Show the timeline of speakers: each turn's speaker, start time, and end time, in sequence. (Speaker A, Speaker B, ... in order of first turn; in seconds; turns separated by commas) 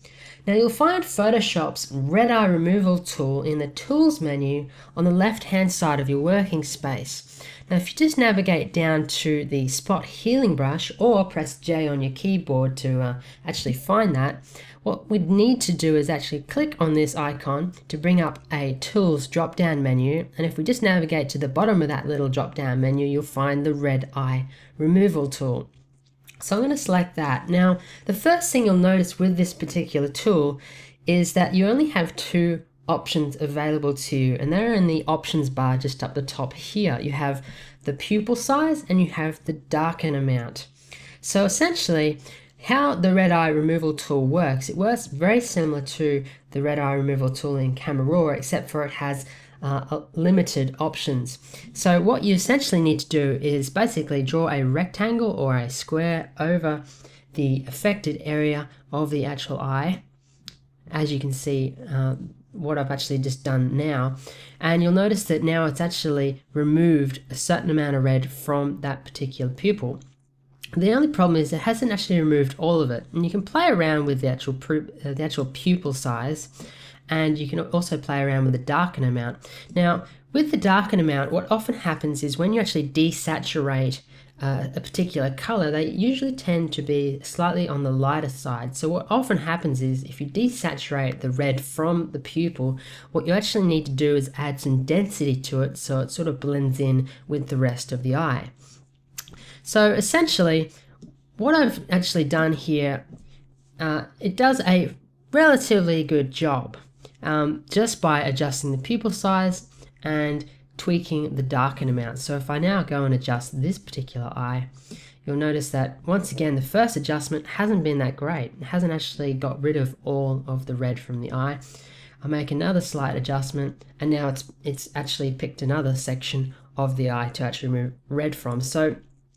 Speaker A: 0.5-25.7, Speaker A: 26.4-40.7, Speaker A: 41.2-60.0, Speaker A: 60.9-70.0, Speaker A: 70.8-76.5, Speaker A: 77.1-98.5, Speaker A: 99.6-100.7, Speaker A: 101.4-103.0, Speaker A: 103.8-114.7, Speaker A: 115.2-121.6, Speaker A: 122.2-129.0